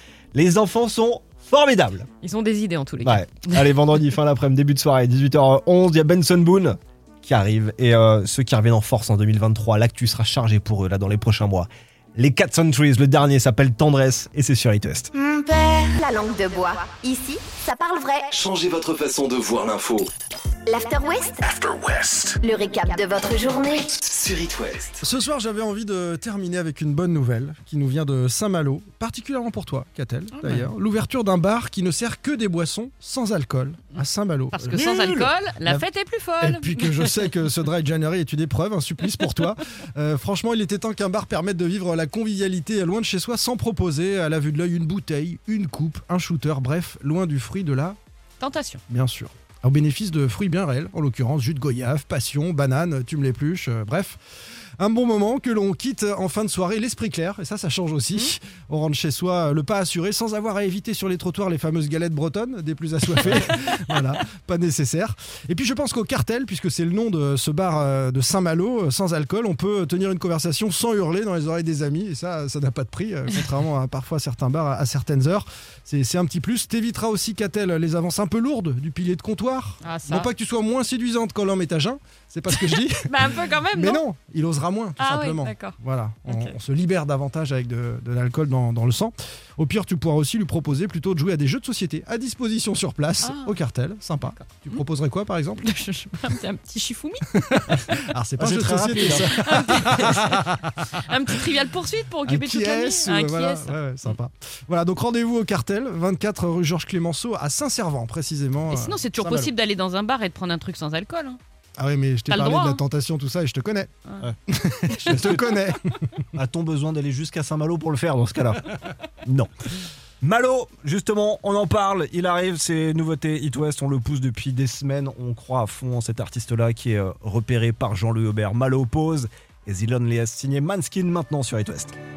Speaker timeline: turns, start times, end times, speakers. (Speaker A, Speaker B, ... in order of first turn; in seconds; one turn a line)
Speaker A: 0.3-2.1
Speaker B: 2.2-3.7
Speaker A: 3.0-15.1
Speaker C: 15.2-18.3
Speaker D: 18.3-20.1
Speaker C: 20.7-21.4
Speaker D: 21.5-22.4
Speaker C: 22.4-23.9
Speaker D: 24.0-24.9
Speaker E: 25.0-35.9
Speaker B: 30.3-30.7
Speaker B: 34.5-37.2
Speaker E: 36.4-48.0
Speaker B: 48.4-48.8
Speaker E: 48.9-54.2
Speaker E: 54.8-95.7
Speaker B: 79.8-80.3
Speaker B: 82.5-84.0
Speaker B: 85.0-86.6
Speaker B: 93.2-93.6
Speaker B: 94.3-94.8
Speaker B: 95.6-98.0
Speaker E: 97.4-100.6
Speaker A: 98.4-99.3
Speaker B: 98.9-104.2
Speaker E: 102.3-109.5
Speaker B: 108.7-111.4
Speaker E: 111.8-113.9
Speaker B: 112.3-112.8
Speaker E: 114.5-116.2
Speaker A: 115.0-115.6
Speaker A: 116.3-119.5
Speaker A: 120.2-131.9